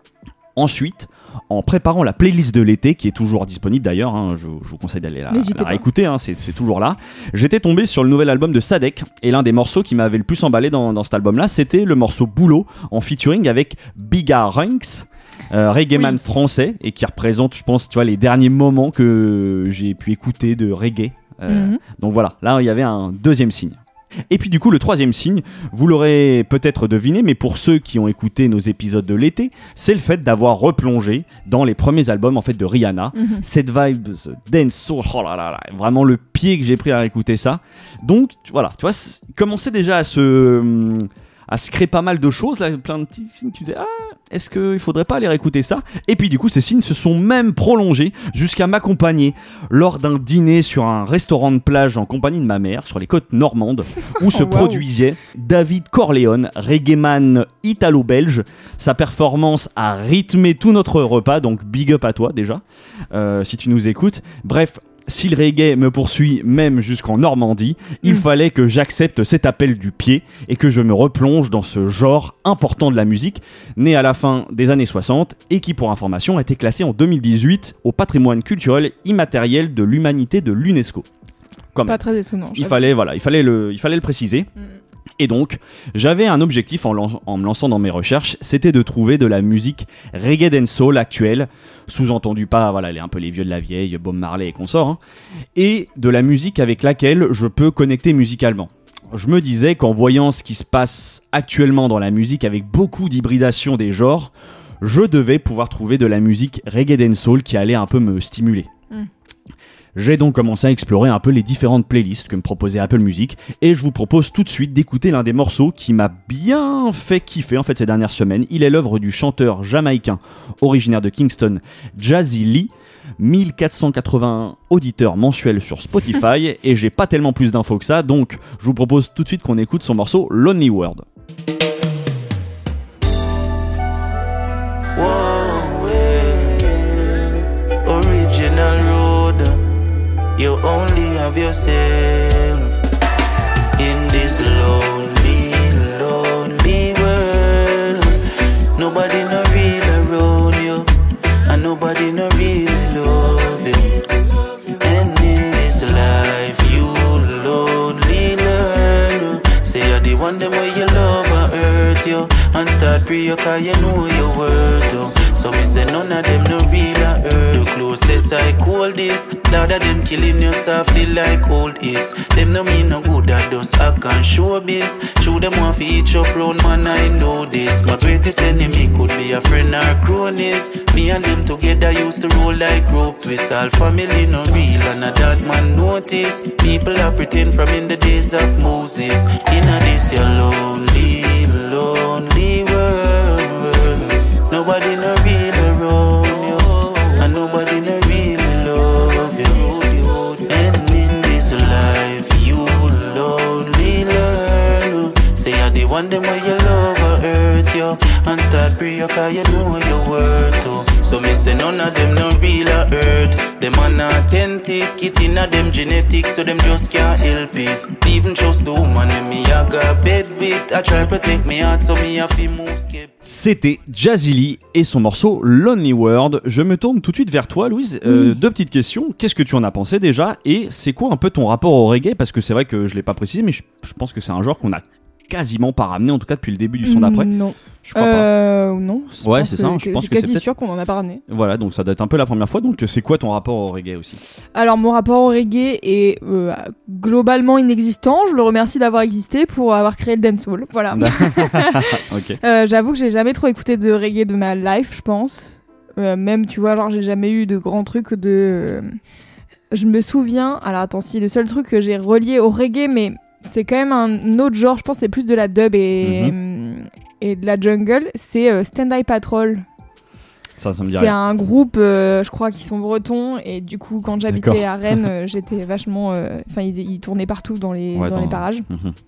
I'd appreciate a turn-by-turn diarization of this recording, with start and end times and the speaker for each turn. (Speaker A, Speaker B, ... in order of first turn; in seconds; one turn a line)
Speaker A: 0.6-81.1
Speaker B: 5.3-5.8
Speaker B: 21.5-21.8
Speaker B: 33.1-33.4
Speaker B: 54.2-54.8
Speaker A: 81.7-82.0
Speaker B: 81.8-82.9
Speaker A: 82.5-84.5
Speaker A: 85.2-95.0
Speaker A: 95.5-108.7
Speaker A: 110.0-131.0
Speaker C: 134.9-137.3
Speaker C: 137.8-139.6
Speaker C: 140.3-142.7
Speaker C: 143.8-148.2
Speaker C: 148.8-150.9
Speaker C: 151.4-154.0
Speaker C: 154.8-223.1
Speaker A: 223.2-237.3
Speaker B: 228.1-228.4
Speaker B: 236.8-241.2
Speaker A: 237.8-238.3
Speaker A: 239.2-240.4
Speaker A: 241.3-244.2
Speaker B: 244.5-258.9
Speaker A: 250.9-252.4
Speaker B: 259.7-269.6
Speaker A: 266.0-266.3
Speaker A: 270.6-271.2
Speaker B: 270.9-278.7
Speaker A: 274.3-274.6
Speaker A: 277.9-278.9